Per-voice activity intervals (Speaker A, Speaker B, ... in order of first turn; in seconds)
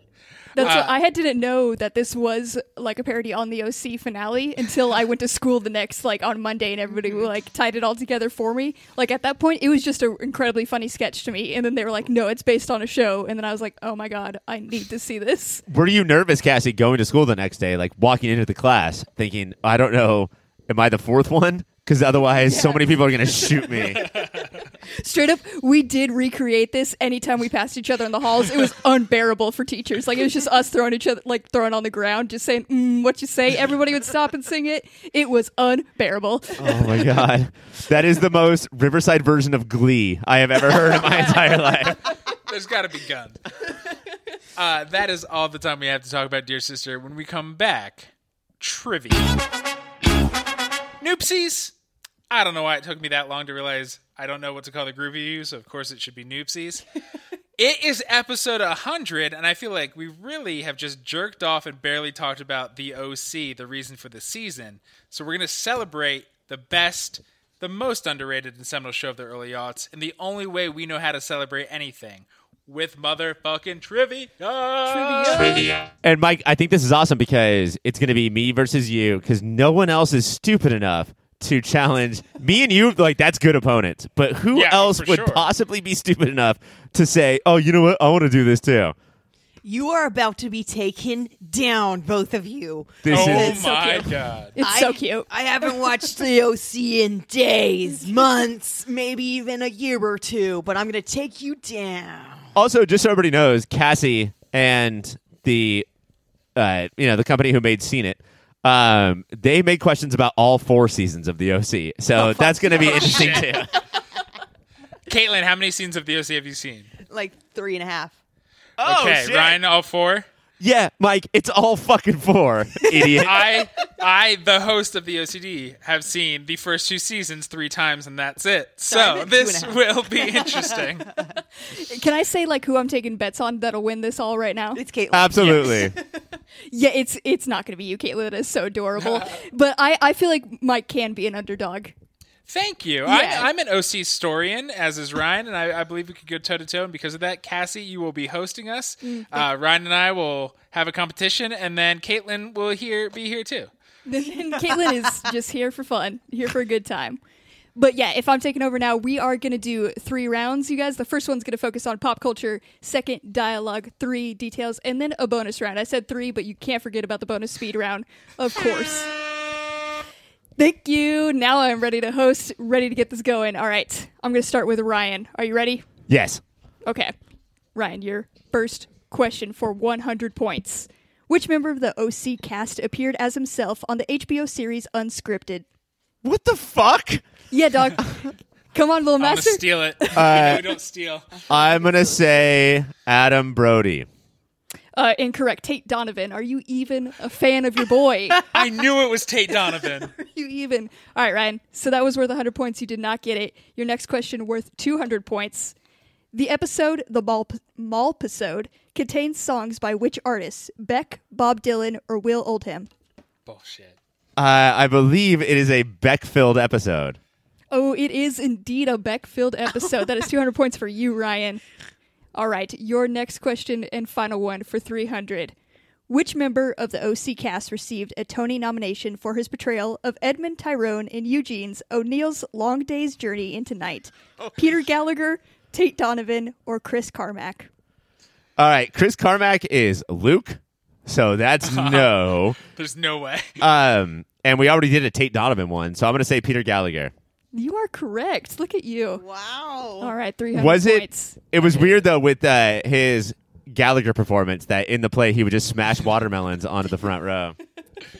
Speaker A: 0.6-15.6, 22.5-22.8, 25.0-37.2, 75.1-75.5, 93.5-95.7, 131.7-134.8, 136.7-141.9, 143.1-143.5, 149.0-149.5, 154.1-157.2, 157.8-169.1, 170.6-175.8, 176.9-177.1, 177.8-185.7, 187.5-190.3, 194.9-198.4, 200.2-205.8, 206.3-212.9, 217.7-221.6, 222.3-225.5, 226.1-237.7, 247.5-249.2, 250.0-251.4
Speaker B: 0.6-0.9, 24.0-24.5, 42.4-43.4, 44.6-49.3, 51.0-51.7, 52.3-56.8, 57.6-75.8, 84.5-85.5, 93.1-94.5, 112.7-113.6, 115.1-116.9, 118.8-120.3, 123.2-131.1, 135.4-135.8, 139.0-139.3, 142.5-153.7, 189.2-191.3, 198.5-200.1, 213.5-214.0, 241.6-243.6, 251.6-252.1
Speaker C: 15.7-24.1, 36.6-42.1, 76.0-89.0, 93.0-93.6, 102.5-105.9, 106.6-113.8, 118.8-119.6, 120.6-123.6, 135.1-136.0, 176.1-176.4, 186.2-187.2, 190.2-190.7, 191.5-194.1, 214.4-217.2, 238.6-242.6, 243.6-247.1, 250.5-257.6
Speaker D: 89.6-102.5, 112.2-113.6, 117.1-118.2, 128.9-131.2, 134.7-136.2, 249.2-250.2